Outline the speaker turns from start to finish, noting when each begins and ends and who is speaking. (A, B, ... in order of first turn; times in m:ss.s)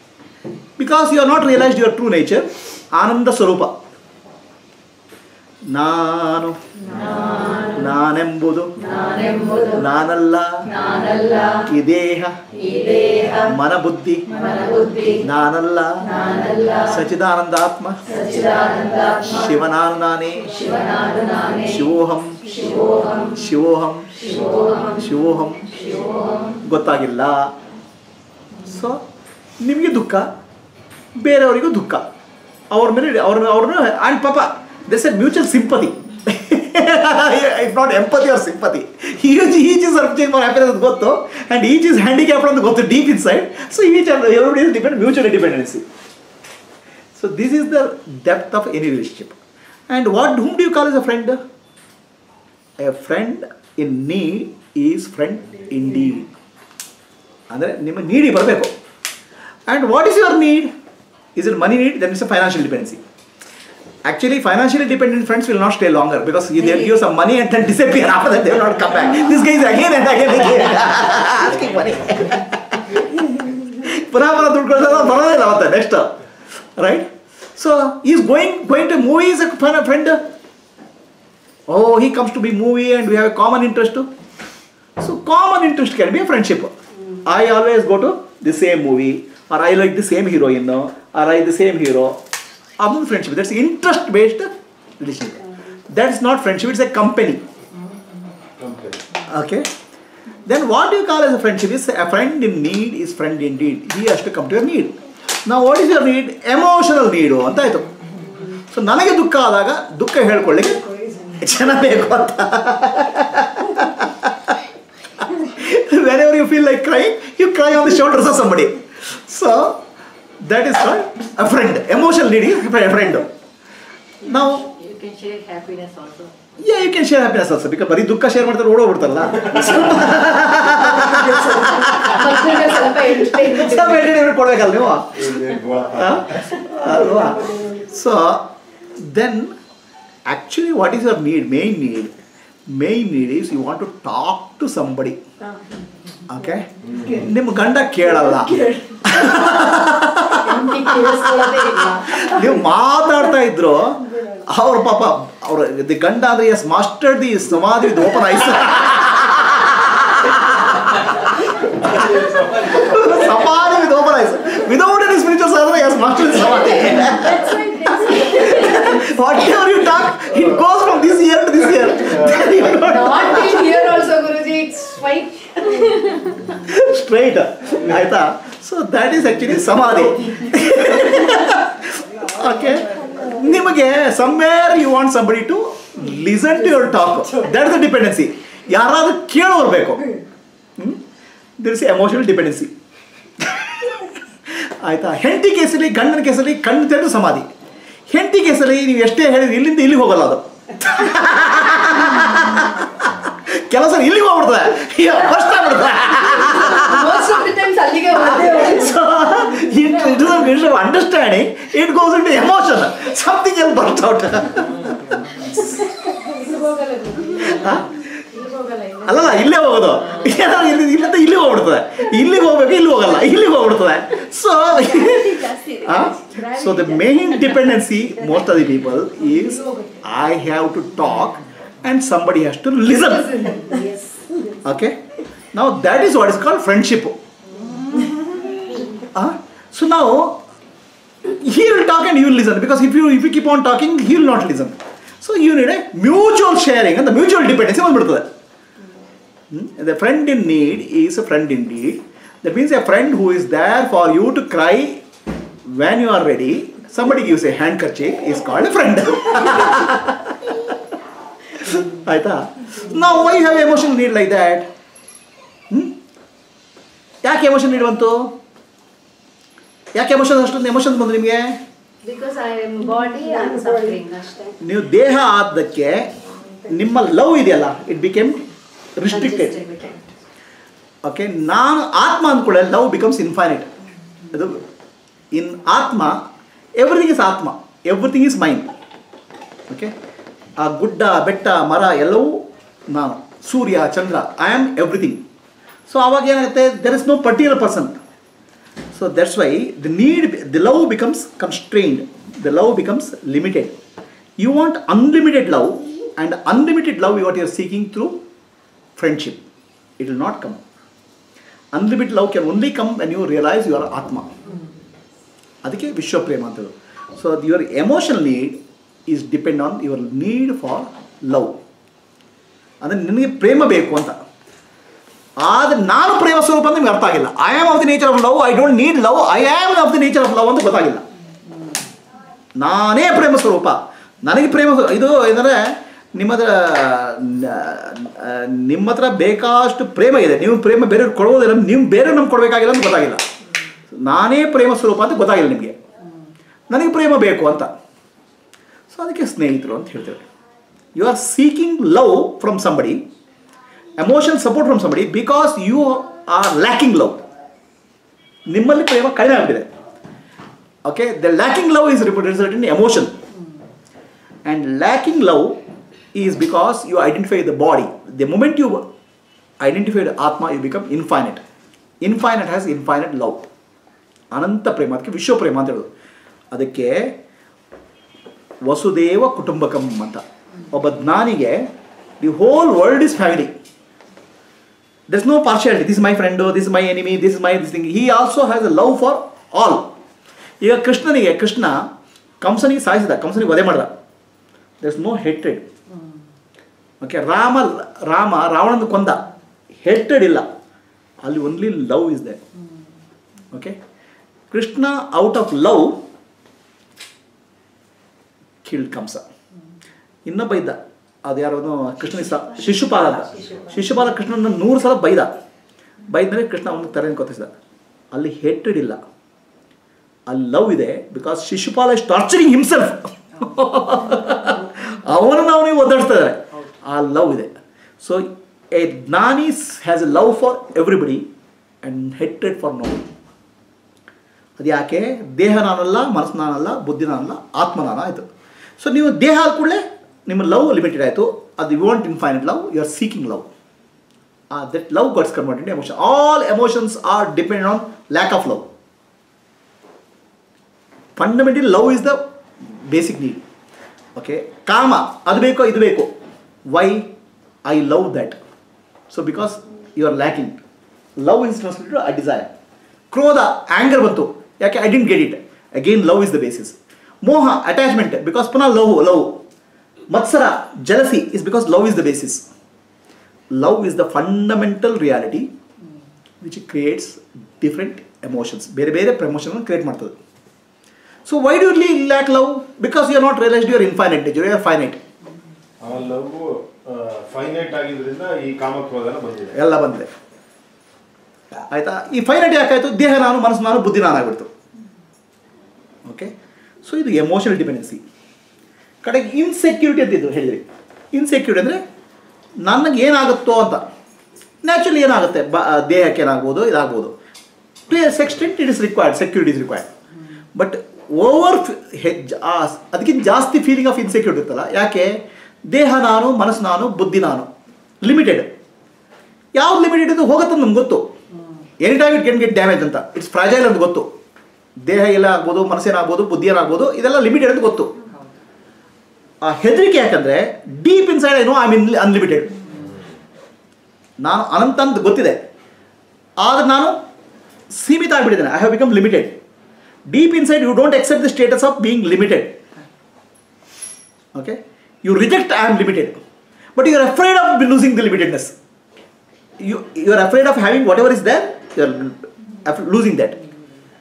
0:00.8-0:03.8 A
0:05.7-0:27.5 A
0:28.6-0:29.0 A
0:29.6-0:30.3 A
0:31.2-0:32.1 A
0:32.7-0:45.8 A
0:47.2-0:49.4 A
0:49.9-0:51.4 A
0:52.8-0:56.3 A
0:57.5-0:58.8 A
0:59.7-1:00.7 A
1:01.4-1:03.0 A
1:04.0-1:16.1 A
1:16.8-1:20.2 A
1:21.7-1:24.1 A
1:25.0-1:26.7 A
1:27.2-1:32.2 A
1:32.8-1:37.4 A
1:38.6-1:39.0 B
1:39.3-1:39.7 A
1:40.5-1:47.9 A
1:48.7-1:50.8 A
1:50.8-1:51.4 C
1:51.4-1:54.6 A
1:55.2-1:59.8 A
2:00.4-2:03.3 A
2:04.2-2:04.7 A
2:04.3-2:06.5 D
2:06.6-2:15.2 A
2:10.7-2:14.1 C
2:15.2-2:16.7 B
2:16.0-2:19.6 A
2:16.7-2:17.8 C
2:20.3-2:22.1 A
2:22.7-2:25.2 A
2:25.4-2:25.9 C
2:26.3-2:53.9 A
2:26.7-2:27.3 C
2:26.8-2:27.3 B
2:28.3-2:32.7 C
2:41.9-2:42.8 B
2:46.8-2:49.2 C
2:52.0-2:52.5 B
2:52.8-2:56.4 C
2:56.4-3:10.1 A
3:02.7-3:03.3 C
3:11.6-3:12.7 A
3:13.4-3:13.9 A
3:14.5-3:17.5 A
3:18.1-3:27.4 A
3:26.3-3:29.0 C
3:28.4-3:35.6 A
3:36.0-3:39.3 C
3:37.4-3:37.9 A
3:39.0-3:53.6 A
3:45.0-3:47.8 C
3:49.4-3:50.0 C
3:53.3-3:54.6 C
3:54.6-3:55.0 A
3:55.5-3:57.2 A
3:57.7-3:58.1 D
3:59.0-4:00.4 A
4:01.3-4:08.3 A
4:09.5-4:15.0 A
4:15.6-4:20.3 A
4:21.6-4:24.7 A
4:25.7-4:26.0 A
4:27.2-4:28.3 A
4:30.0-4:31.6 A
4:32.0-4:34.6 C
4:34.6-4:36.1 A
4:36.7-4:38.4 A
4:39.0-4:39.6 A
4:39.1-4:40.0 C
4:41.0-4:43.7 A
4:44.3-4:44.6 A
4:45.3-4:46.2 A
4:46.8-4:48.7 A
4:50.6-4:55.2 A
4:55.9-4:58.0 A
4:58.9-5:03.8 A
5:04.4-5:08.2 A
5:09.0-5:09.4 A
5:10.0-5:10.6 A
5:11.7-5:14.3 A
5:15.6-5:21.6 A
5:22.8-5:24.2 A
5:25.4-5:31.0 A
5:32.6-5:43.2 A
5:43.9-5:45.8 A
5:46.7-5:47.7 A
5:48.9-5:50.2 A
5:51.0-5:53.0 A
5:54.0-5:57.2 A
5:58.5-5:59.7 A
6:00.8-6:03.2 A
6:04.4-6:05.6 A
6:06.1-6:08.9 A
6:09.6-6:11.4 A
6:12.0-6:13.5 A
6:14.3-6:15.9 A
6:16.5-6:17.2 A
6:18.6-6:23.5 A
6:25.1-6:29.9 A
6:30.6-6:31.9 A
6:32.4-6:33.9 A
6:34.8-6:35.6 A
6:37.0-6:39.2 A
6:39.8-6:40.5 A
6:41.2-6:42.4 A
6:43.5-6:43.8 A
6:44.5-6:46.0 A
6:48.6-6:49.2 A
6:50.3-6:55.3 A
6:52.8-6:53.7 D
6:56.1-6:57.5 A
6:58.1-6:59.0 A
7:00.3-7:11.3 A
7:11.8-7:13.0 A
7:14.6-7:18.3 A
7:18.8-7:23.5 A
7:24.5-7:28.7 A
7:31.2-7:33.4 A
7:34.2-7:36.1 A
7:36.7-7:37.1 A
7:37.6-7:38.4 A
7:39.1-7:40.6 A
7:41.2-7:42.5 A
7:43.1-7:49.4 A
7:50.1-7:52.5 A
7:53.5-7:55.5 A
7:56.4-8:00.2 A
8:01.3-8:05.0 A
8:05.8-8:09.6 B
8:09.5-8:10.1 A
8:11.7-8:14.5 A
8:16.1-8:18.0 A
8:19.0-8:21.8 A
8:22.6-8:23.8 A
8:24.6-8:27.2 A
8:27.9-8:29.9 A
8:30.6-8:37.5 A
8:38.0-8:38.5 A
8:39.6-8:41.0 A
8:41.4-8:41.6 D
8:41.8-8:44.1 A
8:44.8-8:47.9 A
8:49.4-8:52.6 A
8:54.2-8:55.4 A
8:56.4-8:57.0 A
8:57.7-8:59.4 A
9:00.1-9:02.6 A
9:04.4-9:06.2 A
9:06.8-9:08.6 A
9:09.6-9:13.4 A